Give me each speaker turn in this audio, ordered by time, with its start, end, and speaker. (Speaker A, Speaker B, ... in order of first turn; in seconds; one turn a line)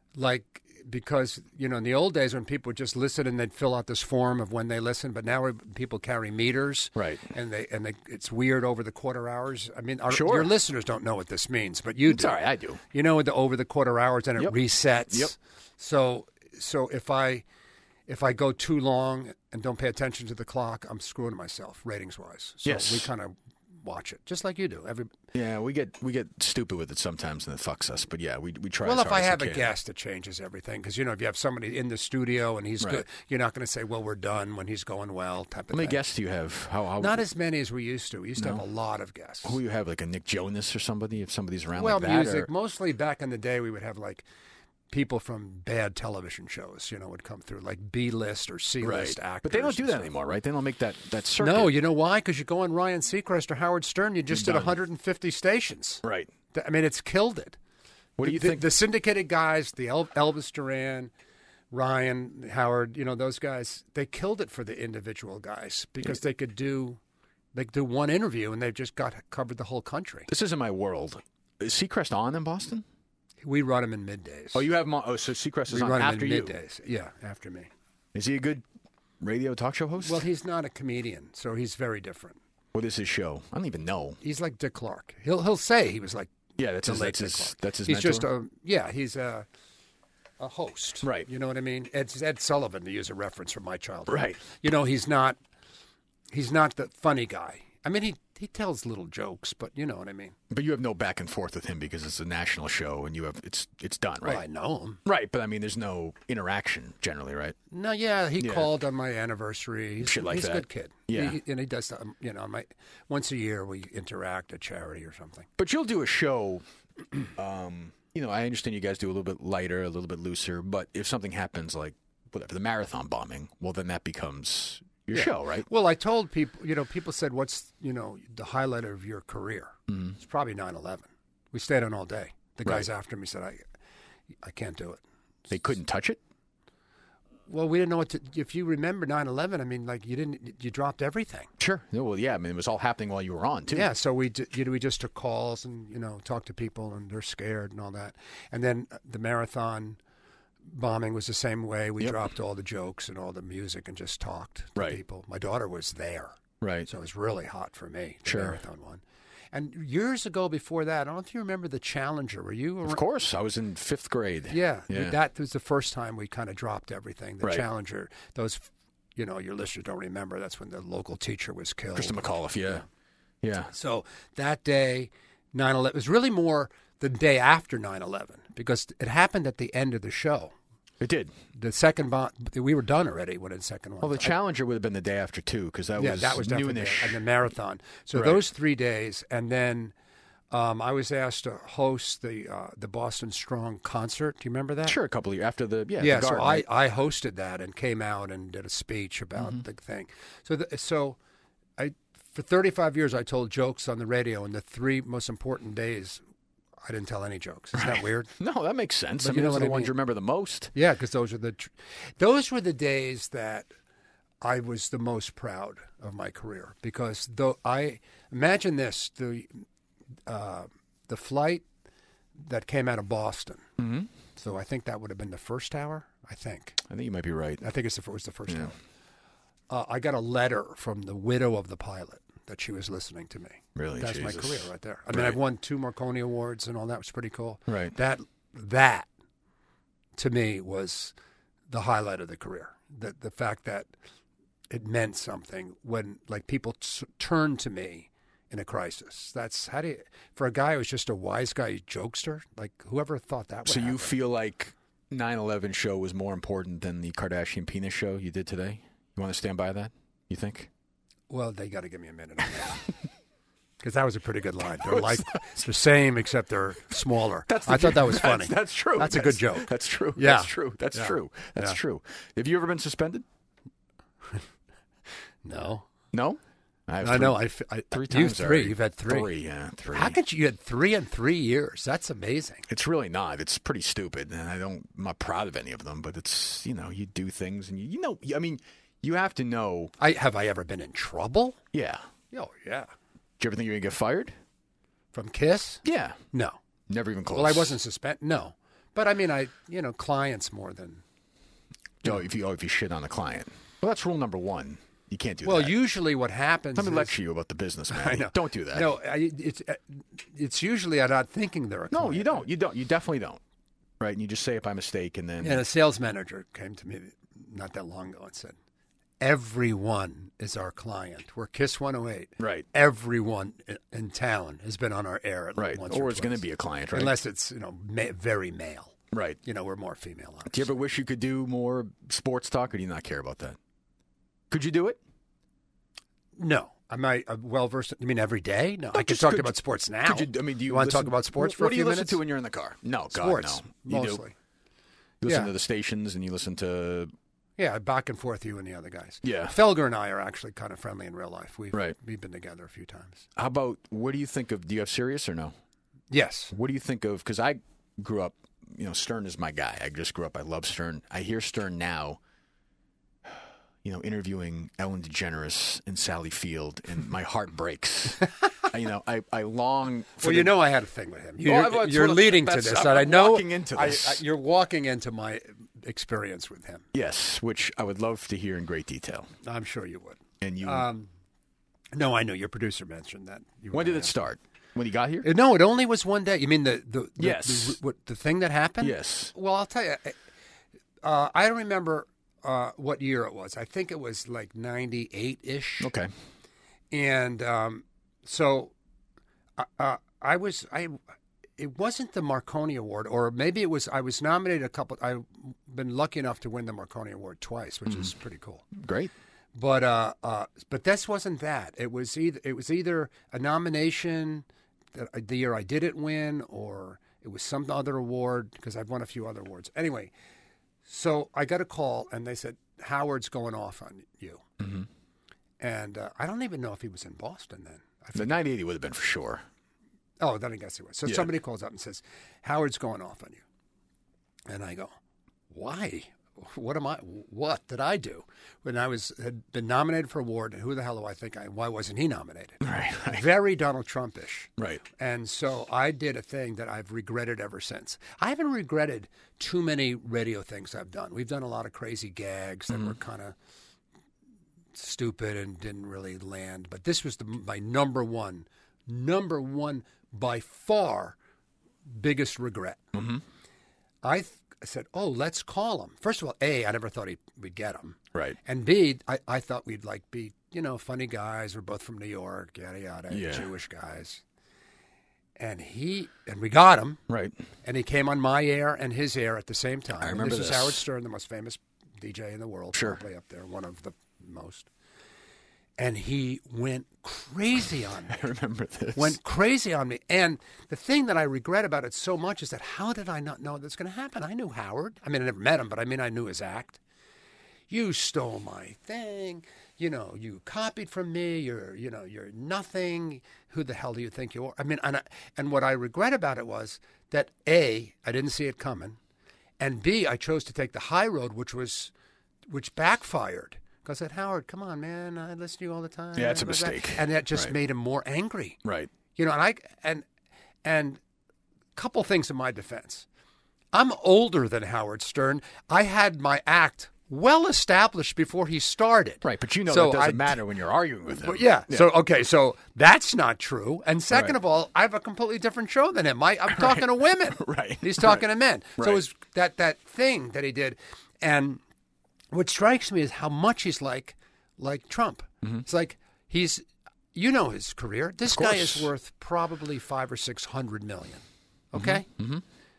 Speaker A: 0.1-12.4
Speaker B: 7.0-7.3
Speaker B: 10.1-10.6
Speaker B: 12.1-12.8
Speaker A: 12.9-17.4
Speaker A: 18.1-25.1
Speaker B: 22.6-23.1
Speaker B: 25.3-29.7
Speaker A: 28.8-36.0
Speaker B: 35.7-37.2
Speaker A: 37.0-39.6
Speaker B: 38.4-38.6
Speaker B: 39.4-42.5
Speaker A: 41.8-44.2
Speaker A: 44.9-50.1
Speaker B: 48.8-51.8
Speaker A: 51.4-57.6
Speaker B: 54.3-54.8
Speaker B: 56.0-56.3
Speaker B: 58.2-58.7
Speaker A: 58.2-61.1
Speaker A: 61.7-67.0
Speaker A: 67.5-70.3
Speaker B: 70.3-72.8
Speaker A: 73.4-74.7
Speaker B: 74.5-76.5
Speaker A: 75.7-77.7
Speaker B: 78.1-78.6
Speaker B: 79.2-80.2
Speaker A: 80.0-82.4
Speaker B: 82.7-84.2
Speaker A: 84.2-89.5
Speaker B: 86.6-88.3
Speaker A: 90.4-95.4
Speaker B: 91.0-91.3
Speaker B: 94.1-94.4
Speaker A: 96.3-100.3
Speaker B: 100.5-104.4
Speaker A: 104.2-105.0
Speaker B: 105.0-107.6
Speaker A: 107.7-115.5
Speaker B: 108.4-108.7
Speaker B: 110.0-111.4
Speaker B: 115.6-116.6
Speaker B: 117.3-125.7
Speaker A: 125.1-133.6
Speaker B: 129.9-130.1
Speaker A: 134.4-135.0
Speaker B: 135.5-136.2
Speaker A: 137.5-141.5
Speaker B: 141.6-143.9
Speaker A: 143.7-150.0
Speaker A: 150.7-163.0
Speaker B: 156.6-156.9
Speaker B: 158.3-158.6
Speaker B: 162.8-165.2
Speaker A: 164.5-172.8
Speaker B: 172.0-172.8
Speaker B: 173.4-173.7
Speaker A: 173.7-180.6
Speaker B: 181.0-181.3
Speaker A: 181.6-184.3
Speaker B: 184.0-187.2
Speaker A: 186.0-189.9
Speaker B: 188.1-188.4
Speaker A: 190.5-195.0
Speaker B: 194.8-196.7
Speaker A: 196.0-201.2
Speaker B: 199.4-199.6
Speaker A: 201.8-206.2
Speaker A: 206.8-208.3
Speaker B: 207.8-210.7
Speaker A: 209.2-209.9
Speaker A: 210.7-213.7
Speaker A: 214.4-219.6
Speaker A: 220.3-221.6
Speaker A: 222.4-223.6
Speaker B: 223.8-224.1
Speaker A: 224.4-226.8
Speaker B: 226.9-227.6
Speaker A: 227.6-228.8
Speaker A: 229.7-239.1
Speaker B: 233.8-235.4
Speaker B: 237.7-237.9
Speaker A: 240.2-241.1
Speaker A: 241.7-243.9
Speaker A: 244.7-254.1
Speaker B: 253.7-260.7
Speaker A: 261.3-262.9
Speaker A: 263.8-271.8
Speaker B: 264.9-265.5
Speaker B: 267.5-273.2
Speaker A: 275.4-275.9
Speaker B: 276.1-280.2
Speaker A: 277.0-279.3
Speaker A: 279.9-282.6
Speaker B: 282.7-289.9
Speaker A: 290.0-291.6
Speaker B: 291.7-292.1
Speaker A: 292.3-292.9
Speaker B: 293.4-294.3
Speaker A: 295.1-296.6
Speaker B: 295.9-296.2
Speaker B: 296.9-297.7
Speaker A: 297.3-301.0
Speaker B: 302.0-305.8
Speaker A: 305.4-307.1
Speaker B: 306.8-308.9
Speaker A: 307.9-312.5
Speaker B: 311.9-313.4
Speaker B: 314.0-315.6
Speaker A: 315.4-318.6
Speaker A: 319.2-330.7
Speaker B: 322.4-322.7
Speaker B: 325.6-327.2
Speaker B: 329.1-329.4
Speaker B: 330.5-333.6
Speaker B: 334.5-335.0
Speaker A: 336.4-342.2
Speaker B: 338.9-344.2
Speaker A: 343.1-344.4
Speaker B: 345.2-347.1
Speaker A: 345.2-345.5
Speaker A: 347.6-353.2
Speaker B: 349.2-349.6
Speaker B: 353.4-355.6
Speaker A: 356.1-356.5
Speaker B: 356.5-362.2
Speaker B: 363.3-370.5
Speaker A: 370.2-376.9
Speaker B: 371.4-374.2
Speaker B: 376.9-379.3
Speaker A: 379.4-381.1
Speaker B: 380.4-380.9
Speaker A: 381.9-384.1
Speaker B: 383.7-385.3
Speaker A: 385.2-390.1
Speaker B: 387.2-387.8
Speaker B: 388.8-389.3
Speaker A: 391.0-395.9
Speaker B: 395.8-396.1
Speaker A: 396.9-398.7
Speaker A: 399.6-401.0
Speaker A: 401.6-408.6
Speaker B: 408.8-409.1
Speaker A: 409.6-420.1
Speaker A: 420.9-424.4
Speaker B: 424.6-424.9
Speaker A: 425.6-428.4
Speaker B: 428.1-429.4
Speaker A: 430.2-433.4
Speaker A: 434.5-434.9
Speaker A: 435.5-453.4
Speaker B: 442.6-443.3
Speaker B: 444.6-444.8
Speaker B: 452.7-452.9
Speaker A: 454.8-461.1
Speaker A: 461.9-462.8
Speaker B: 462.9-463.2
Speaker A: 464.0-474.2
Speaker B: 473.1-473.5
Speaker A: 475.4-477.0
Speaker B: 477.1-477.4
Speaker A: 477.6-484.7
Speaker B: 480.0-480.8
Speaker B: 482.7-483.0
Speaker A: 485.8-488.1
Speaker B: 488.1-489.2
Speaker A: 488.9-496.8
Speaker A: 497.7-509.0
Speaker A: 509.6-511.9
Speaker A: 512.5-518.6
Speaker B: 516.1-517.5
Speaker B: 518.6-518.9
Speaker A: 519.1-520.0
Speaker A: 520.6-521.0
Speaker A: 521.8-523.1
Speaker A: 523.7-530.4
Speaker B: 529.2-532.1
Speaker A: 531.2-541.6
Speaker B: 534.1-534.4
Speaker B: 536.6-538.2
Speaker B: 538.8-539.0
Speaker A: 542.3-552.1
Speaker B: 548.2-548.9
Speaker B: 551.7-552.4